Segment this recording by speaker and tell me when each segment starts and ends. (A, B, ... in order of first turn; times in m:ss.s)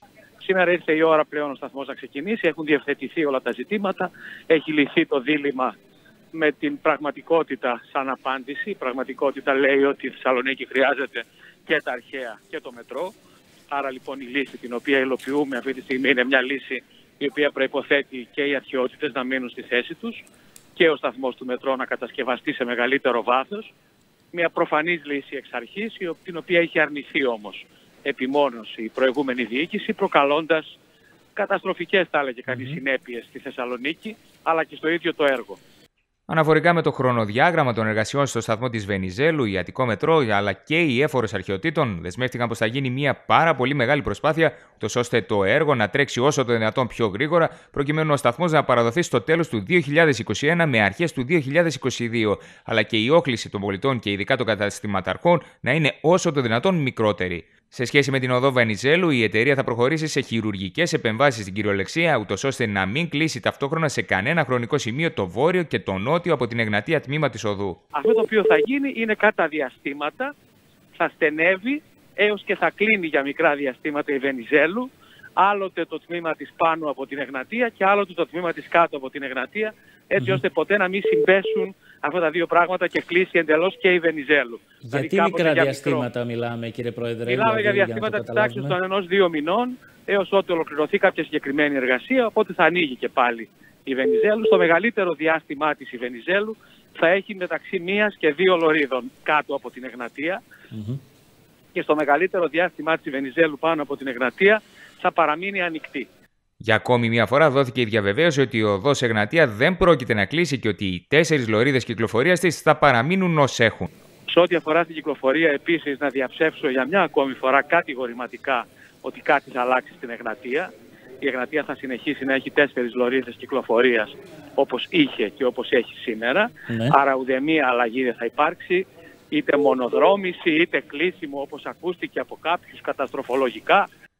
0:00.4-0:05.8 A
0:06.3-0:13.1 A
0:13.7-0:20.2 A
0:20.8-0:23.7 A
0:24.3-0:30.8 A
0:31.4-0:35.6 A
0:32.5-0:32.8 B
0:36.3-1:07.8 C
1:07.9-1:10.3 A
1:11.0-1:26.1 A
1:24.8-1:28.8 B
1:27.3-1:40.4 A
1:40.7-1:41.0 B
1:41.7-1:46.1 A
1:46.6-1:53.9 C
1:54.3-2:00.7 A
2:01.2-2:13.9 A
2:06.7-2:06.9 B